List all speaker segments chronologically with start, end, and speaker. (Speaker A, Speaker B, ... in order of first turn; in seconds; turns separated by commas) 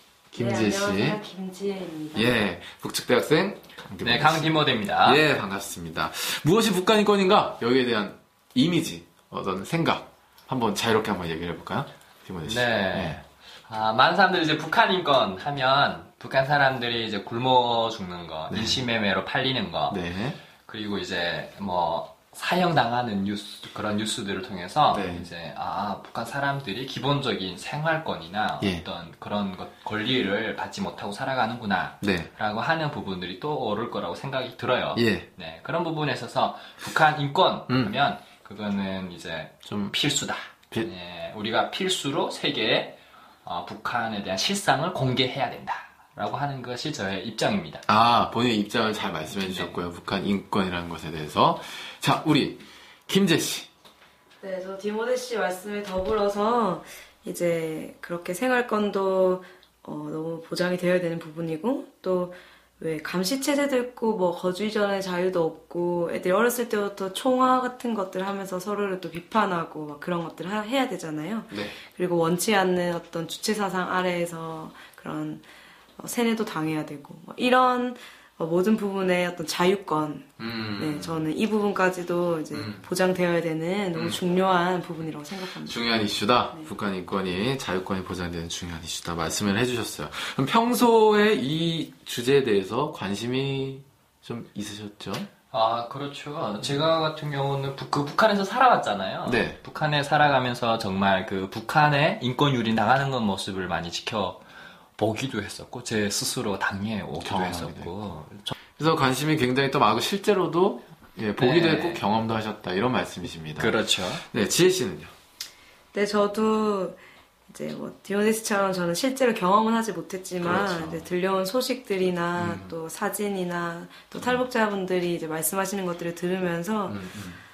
Speaker A: 0.3-1.2, Speaker B: 0.3-2.4, Speaker A: 2.1-4.5, Speaker C: 4.0-5.2, Speaker A: 5.0-13.2, Speaker C: 12.4-20.0, Speaker A: 18.5-18.8, Speaker A: 19.9-20.4, Speaker C: 20.6-47.9, Speaker A: 24.9-25.3, Speaker A: 32.0-32.3, Speaker A: 34.9-35.3, Speaker A: 37.7-37.9, Speaker A: 39.6-39.9, Speaker A: 47.9-53.7, Speaker C: 49.3-49.7, Speaker B: 54.4-75.4, Speaker A: 71.5-71.8, Speaker B: 76.0-85.8, Speaker A: 80.4-81.2, Speaker A: 82.5-82.8, Speaker A: 83.9-84.2, Speaker A: 85.6-95.3, Speaker C: 95.5-104.4, Speaker A: 99.2-99.6, Speaker C: 105.0-108.6, Speaker A: 107.2-107.9, Speaker A: 108.8-115.1, Speaker C: 111.4-112.0, Speaker C: 113.6-114.2, Speaker B: 115.9-117.0, Speaker B: 117.5-127.0, Speaker A: 120.4-121.1, Speaker A: 122.3-122.7, Speaker A: 126.9-127.4